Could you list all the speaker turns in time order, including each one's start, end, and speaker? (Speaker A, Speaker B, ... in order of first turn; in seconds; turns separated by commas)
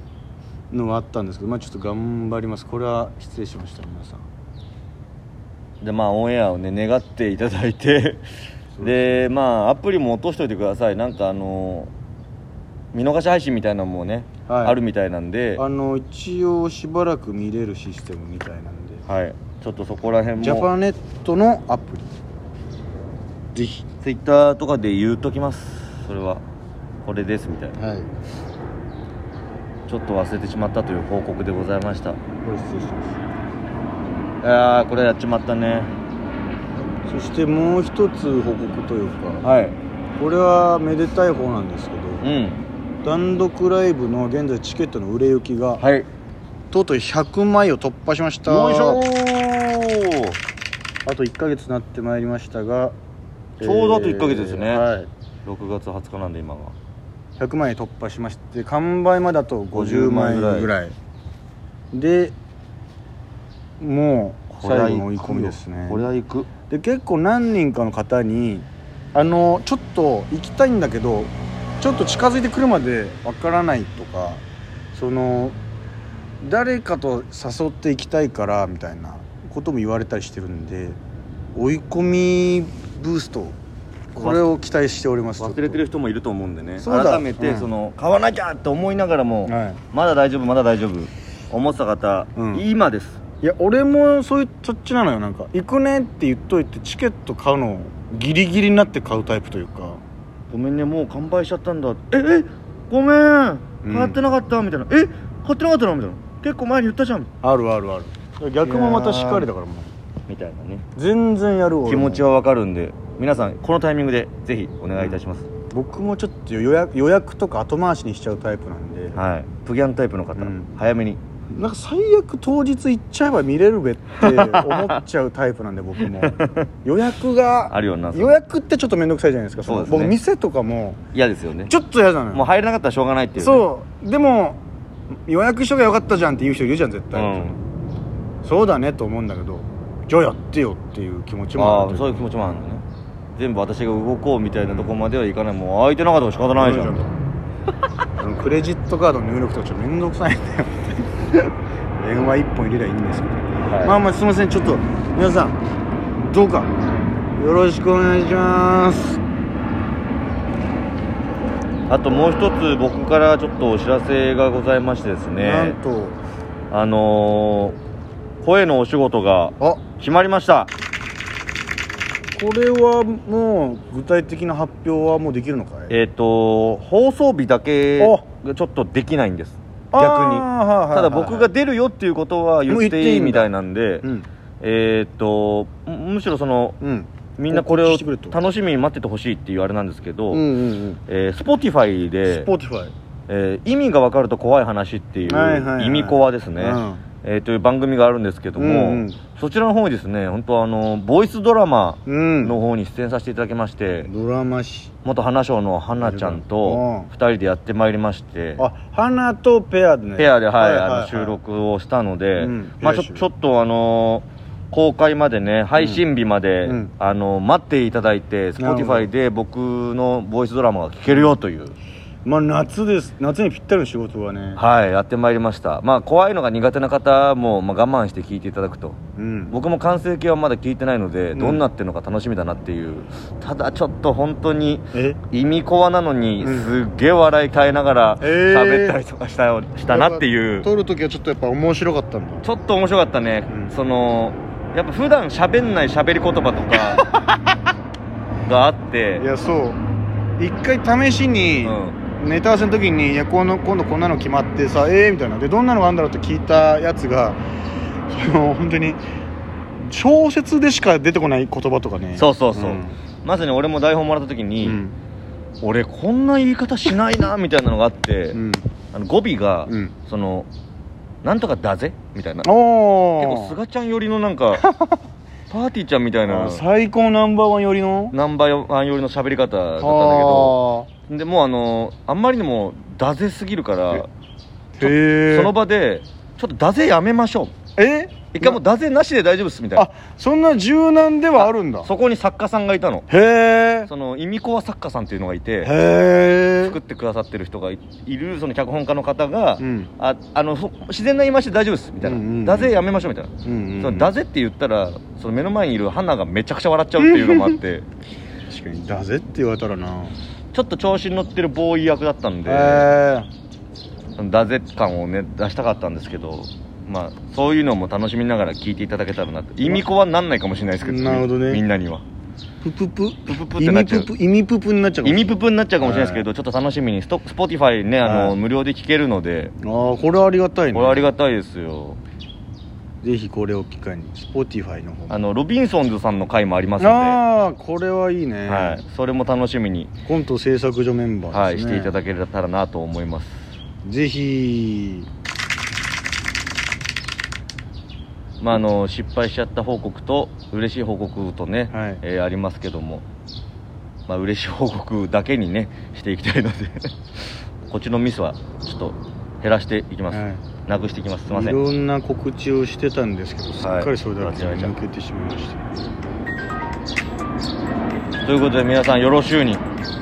Speaker A: 0.7-4.2, Speaker B: 5.8-8.2, Speaker A: 8.8-9.2, Speaker B: 8.8-11.9, Speaker B: 12.9-15.6, Speaker A: 14.5-14.8, Speaker A: 15.6-19.1, Speaker B: 19.1-20.7, Speaker A: 20.4-22.1, Speaker A: 23.5-23.9, Speaker B: 24.0-26.4, Speaker B: 27.0-27.8, Speaker A: 27.8-28.1, Speaker B: 29.9-32.2, Speaker A: 32.4-33.2, Speaker B: 34.4-35.9, Speaker A: 37.0-39.5, Speaker B: 39.4-39.8, Speaker A: 40.2-42.2, Speaker B: 42.2-42.6, Speaker A: 43.0-45.8, Speaker B: 45.8-46.1, Speaker A: 46.7-49.0, Speaker B: 48.4-50.4, Speaker A: 51.0-52.9, Speaker B: 53.6-54.9, Speaker A: 53.6-55.1, Speaker B: 55.4-56.8, Speaker A: 57.4-60.9, Speaker B: 59.7-60.7, Speaker A: 61.9-62.3, Speaker A: 63.8-66.1, Speaker B: 64.5-66.5, Speaker A: 66.7-74.4, Speaker A: 74.9-75.6, Speaker A: 76.4-81.0, Speaker A: 81.5-83.6, Speaker A: 84.1-85.8, Speaker B: 84.2-84.5, Speaker B: 85.4-93.2, Speaker A: 86.8-87.7, Speaker A: 89.4-89.8, Speaker A: 92.4-92.7, Speaker A: 93.4-100.0, Speaker B: 100.5-107.3, Speaker A: 103.8-104.2, Speaker A: 107.4-109.9, Speaker B: 108.6-109.5, Speaker B: 110.3-110.8, Speaker A: 111.0-112.2, Speaker B: 111.8-115.5, Speaker A: 115.7-119.2, Speaker B: 119.1-121.2, Speaker A: 120.4-120.7, Speaker A: 121.5-131.0, Speaker B: 124.2-124.9, Speaker B: 126.0-126.7, Speaker B: 127.7-128.4, Speaker B: 129.6-130.2, Speaker B: 131.2-131.7, Speaker A: 131.7-132.4, Speaker B: 132.3-133.6, Speaker A: 133.4-134.6, Speaker A: 135.3-137.6, Speaker B: 137.1-137.6, Speaker A: 138.4-142.3, Speaker B: 141.6-142.8, Speaker B: 143.4-147.0, Speaker A: 144.7-144.9, Speaker A: 146.6-147.1, Speaker A: 148.2-155.6, Speaker B: 153.6-154.0, Speaker A: 156.2-156.7, Speaker A: 157.4-159.2, Speaker B: 161.9-165.8, Speaker A: 165.4-166.2, Speaker B: 166.7-167.8, Speaker B: 168.4-170.7, Speaker A: 172.3-176.0, Speaker B: 175.9-184.1, Speaker A: 178.0-178.2, Speaker A: 179.9-181.5, Speaker A: 182.7-183.5, Speaker A: 184.0-184.3, Speaker B: 184.6-186.8, Speaker A: 186.8-188.4, Speaker B: 187.4-190.5, Speaker A: 190.3-191.0, Speaker B: 191.1-192.5, Speaker A: 192.2-192.9, Speaker B: 193.3-204.1, Speaker A: 195.2-197.0, Speaker A: 198.6-199.2, Speaker A: 202.1-202.6, Speaker A: 204.1-204.9, Speaker B: 205.0-208.6, Speaker A: 206.0-207.1, Speaker A: 208.6-211.4, Speaker B: 210.2-221.8, Speaker A: 212.4-213.2, Speaker A: 216.6-216.9, Speaker A: 218.6-219.1, Speaker A: 222.2-224.6, Speaker B: 224.6-229.0, Speaker A: 229.2-229.6, Speaker B: 229.5-240.7, Speaker A: 231.3-231.6, Speaker A: 234.9-235.2, Speaker A: 236.4-236.8, Speaker A: 238.2-239.0, Speaker A: 239.9-242.5, Speaker B: 242.4-247.1, Speaker A: 246.9-247.3, Speaker B: 248.4-249.2, Speaker A: 249.2-249.8, Speaker A: 250.4-257.4, Speaker B: 251.6-252.0, Speaker A: 258.1-259.0, Speaker A: 259.8-263.0, Speaker B: 262.1-264.8, Speaker A: 264.6-265.0, Speaker B: 265.6-268.4, Speaker A: 268.3-268.6, Speaker B: 268.9-270.5, Speaker A: 269.7-269.9, Speaker B: 271.2-272.5, Speaker A: 272.4-273.6, Speaker B: 273.2-274.7, Speaker A: 274.6-275.0, Speaker B: 275.5-276.6, Speaker A: 276.2-278.1, Speaker B: 278.1-284.1, Speaker A: 279.8-280.9, Speaker A: 284.8-285.5, Speaker B: 284.8-287.5, Speaker A: 287.8-288.6, Speaker B: 288.3-289.9, Speaker A: 289.8-291.9, Speaker B: 291.4-293.1, Speaker A: 293.1-293.9, Speaker B: 293.9-295.7, Speaker A: 295.6-296.8, Speaker B: 296.6-307.9, Speaker A: 299.6-299.9, Speaker A: 302.0-302.8, Speaker A: 303.4-304.1, Speaker A: 307.0-307.6, Speaker A: 308.5-310.2, Speaker B: 310.5-312.9, Speaker A: 312.4-313.3, Speaker B: 314.2-322.0, Speaker A: 320.8-321.6, Speaker A: 322.6-326.2, Speaker B: 323.3-324.1, Speaker B: 325.0-329.5, Speaker A: 328.0-328.4, Speaker A: 329.6-331.1, Speaker B: 330.7-332.0, Speaker A: 333.0-335.2, Speaker B: 335.1-337.2, Speaker A: 336.8-338.8, Speaker B: 338.5-339.9, Speaker A: 340.1-341.9, Speaker B: 341.3-343.5, Speaker A: 343.8-345.1, Speaker B: 348.4-353.0, Speaker A: 351.7-352.0, Speaker B: 354.1-356.9, Speaker B: 357.7-361.6, Speaker A: 360.1-360.4, Speaker A: 361.3-365.6, Speaker B: 363.6-364.7, Speaker B: 368.2-369.6